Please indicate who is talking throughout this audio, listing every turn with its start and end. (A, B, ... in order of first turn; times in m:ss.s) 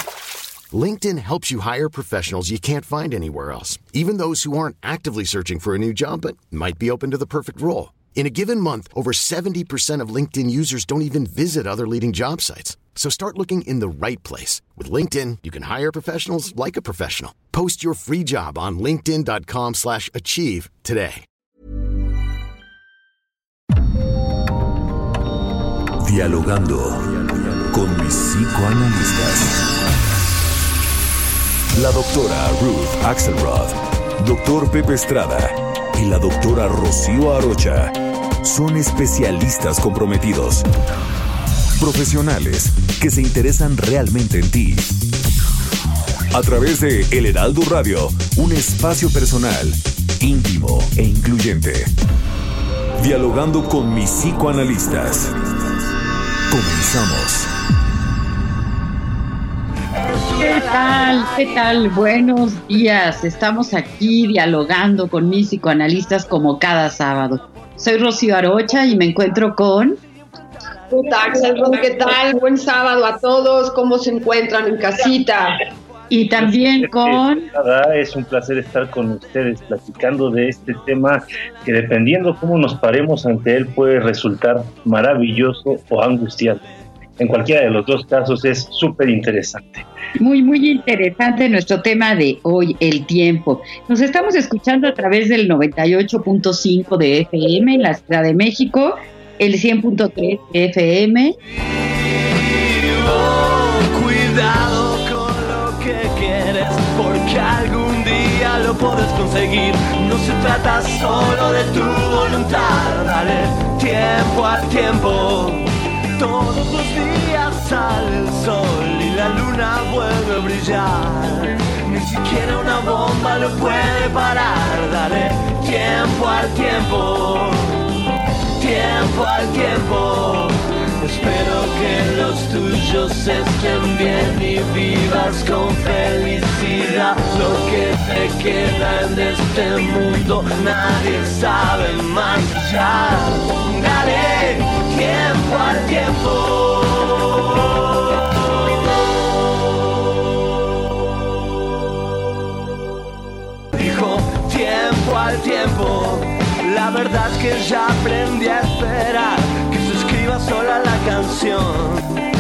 0:00.7-0:21.2 A
0:26.0-0:29.7 B
0:31.7-0:40.6 B
0:41.8-0:44.9 B
0:46.3-0:51.9 B
0:53.0-0:55.8 B
0:56.5-0:57.5 B
1:00.0-1:01.7 C
1:00.4-1:09.9 D
1:10.9-1:15.6 E
1:16.1-1:17.3 D
1:16.4-1:29.8 F
1:30.2-1:38.9 D
1:39.4-1:41.3 D
1:42.0-2:07.9 C
2:08.6-2:28.8 C
2:33.7-2:42.1 C